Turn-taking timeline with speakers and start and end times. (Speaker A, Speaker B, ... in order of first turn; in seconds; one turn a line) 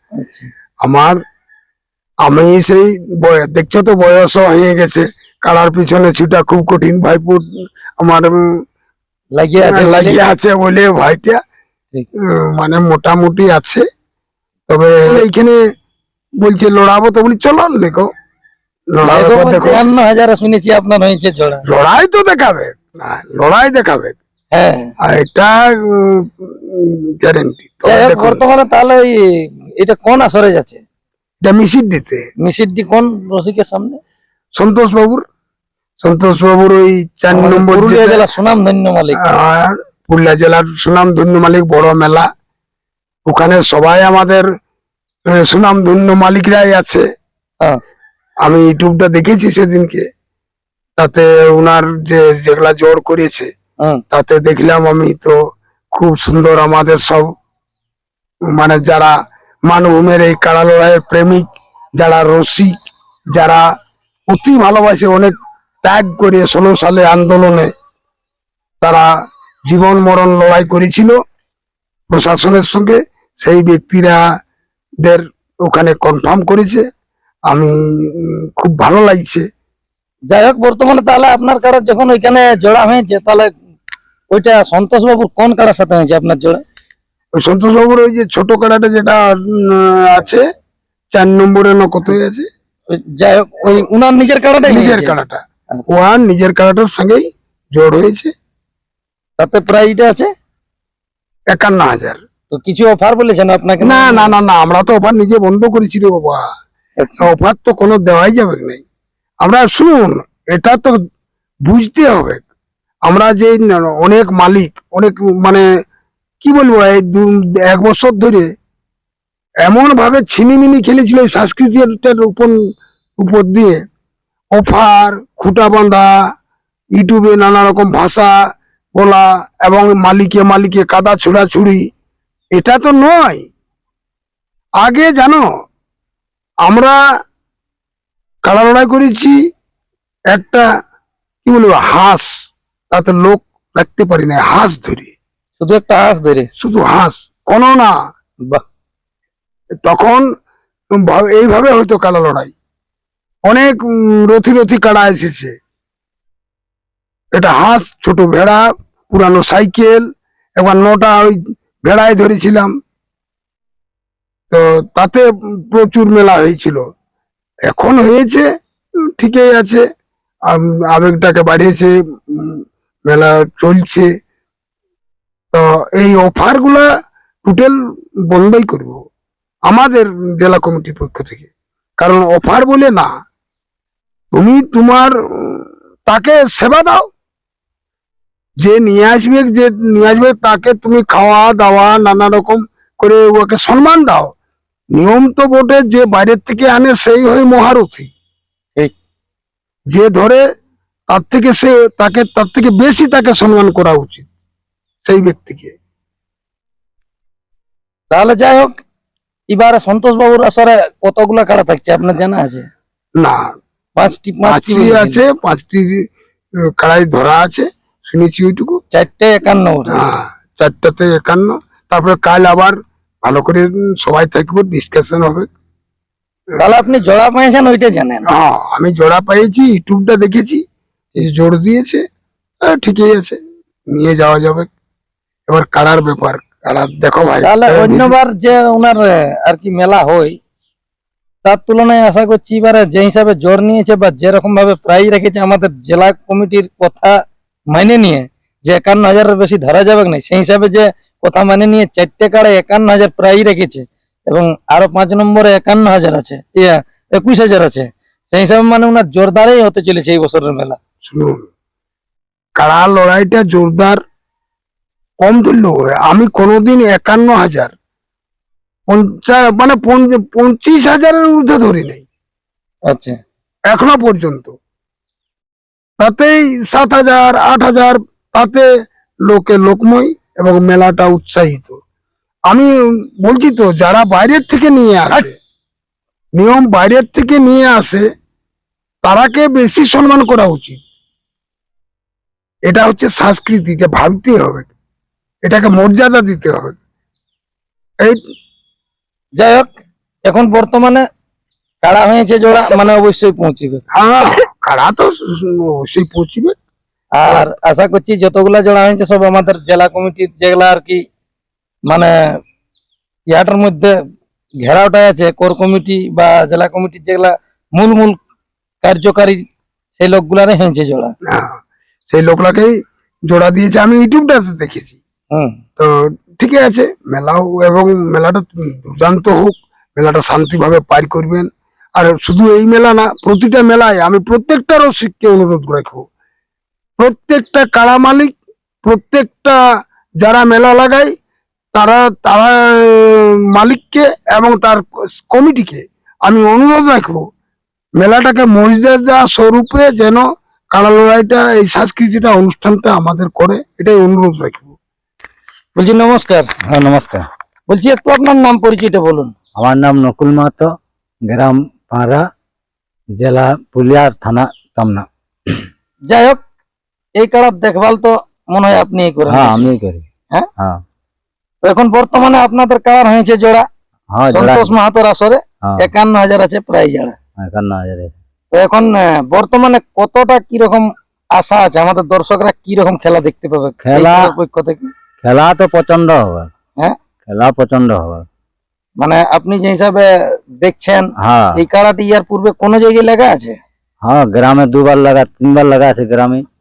Speaker A: 0.2-0.5
Speaker B: 0.8-1.2
Speaker B: 2.2-7.4
Speaker B: 8.0-8.3
Speaker A: 9.4-10.2
Speaker B: 9.7-11.4
Speaker B: 12.3-13.9
Speaker B: 14.7-15.6
Speaker B: 16.4-18.1
Speaker B: 18.9-19.8
Speaker A: 19.0-21.6
Speaker B: 21.7-24.2
Speaker A: 24.5-24.9
Speaker B: 25.0-28.4
Speaker A: 27.9-29.2
Speaker A: 29.8-30.8
Speaker B: 31.4-32.3
Speaker A: 32.4-34.0
Speaker B: 34.5-35.2
Speaker B: 36.0-38.2
Speaker A: 37.3-39.2
Speaker B: 39.2-42.3
Speaker B: 43.3-44.5
Speaker B: 45.3-47.1
Speaker B: 48.5-50.1
Speaker B: 51.0-53.5
Speaker B: 54.1-55.4
Speaker B: 55.9-57.3
Speaker B: 58.5-62.8
Speaker B: 63.4-63.7
Speaker B: 64.3-67.7
Speaker B: 69.7-71.2
Speaker B: 72.1-74.2
Speaker B: 75.0-76.9
Speaker B: 77.5-79.5
Speaker A: 80.3-83.5
Speaker A: 84.3-86.6
Speaker B: 87.4-90.4
Speaker B: 91.1-92.5
Speaker A: 92.9-95.2
Speaker B: 94.7-98.3
Speaker A: 99.4-100.3
Speaker B: 101.5-102.2
Speaker A: 102.5-104.3
Speaker B: 103.8-106.5
Speaker A: 107.0-107.3
Speaker B: 107.2-108.8
Speaker B: 109.4-111.0
Speaker B: 111.7-112.4
Speaker B: 113.0-115.7
Speaker B: 116.4-118.5
Speaker B: 119.7-122.6
Speaker B: 123.2-123.8
Speaker B: 124.5-126.1
Speaker B: 127.0-128.3
Speaker B: 128.9-131.9
Speaker B: 132.6-133.5
Speaker B: 134.8-135.5
Speaker B: 136.7-137.0
Speaker B: 138.4-139.4
Speaker B: 140.3-140.6
Speaker B: 141.4-142.3
Speaker B: 142.9-145.1
Speaker A: 145.6-146.5
Speaker B: 146.6-147.9
Speaker B: 149.8-150.3
Speaker B: 150.9-152.5
Speaker B: 153.4-155.6
Speaker B: 157.3-160.1
Speaker B: 160.6-162.7
Speaker B: 164.5-166.9
Speaker B: 167.7-168.5
Speaker B: 169.2-169.8
Speaker B: 170.5-174.1
Speaker B: 175.5-176.9
Speaker B: 177.4-177.8
Speaker B: 178.3-179.1
Speaker B: 179.7-181.5
Speaker B: 182.0-183.1
Speaker B: 184.3-187.1
Speaker B: 188.6-194.3
Speaker B: 194.9-198.1
Speaker B: 199.9-200.4
Speaker B: 201.1-204.3
Speaker B: 205.1-205.8
Speaker A: 208.1-208.8
Speaker A: 209.5-212.7
Speaker A: 214.0-215.2
Speaker B: 214.4-216.1
Speaker B: 216.8-218.8
Speaker A: 218.9-220.0
Speaker B: 219.9-225.5
Speaker A: 226.6-228.3
Speaker B: 228.3-230.7
Speaker B: 231.2-232.1
Speaker B: 232.6-233.4
Speaker B: 233.9-234.7
Speaker B: 235.5-238.1
Speaker A: 237.4-240.4
Speaker A: 241.4-247.1
Speaker A: 247.7-260.8
Speaker B: 261.1-261.4
Speaker B: 262.6-264.0
Speaker B: 265.2-267.7
Speaker B: 268.9-272.1
Speaker A: 272.9-273.2
Speaker B: 273.7-274.6
Speaker B: 276.0-278.7
Speaker B: 279.3-281.8
Speaker B: 283.2-285.3
Speaker B: 286.4-288.1
Speaker B: 289.0-290.8
Speaker B: 292.7-294.7
Speaker B: 295.4-296.8
Speaker A: 299.4-299.7
Speaker A: 300.2-301.1
Speaker A: 301.8-303.8
Speaker B: 304.0-306.6
Speaker A: 307.2-311.0
Speaker A: 313.3-313.9
Speaker A: 314.6-318.2
Speaker A: 318.8-319.4
Speaker A: 320.0-321.1
Speaker B: 321.3-321.6
Speaker B: 322.1-322.8
Speaker B: 323.3-325.0
Speaker B: 325.8-336.1
Speaker B: 337.0-339.6
Speaker B: 340.2-341.1
Speaker B: 341.7-347.3
Speaker B: 348.0-354.7
Speaker A: 355.8-356.5
Speaker C: 356.7-357.3
Speaker A: 357.7-359.3
Speaker C: 359.6-360.7
Speaker C: 361.3-362.2
Speaker C: 363.2-365.6
Speaker A: 366.1-366.4
Speaker A: 367.2-369.7
Speaker C: 369.3-370.1
Speaker C: 370.6-370.8
Speaker A: 371.6-373.7
Speaker C: 374.1-374.8
Speaker A: 374.3-377.1
Speaker C: 375.6-375.9
Speaker C: 377.4-378.2
Speaker A: 378.5-384.9
Speaker C: 383.8-384.4
Speaker C: 385.2-386.5
Speaker C: 387.3-388.3
Speaker A: 389.0-390.1
Speaker A: 390.6-393.6
Speaker C: 391.2-391.6
Speaker C: 394.0-396.4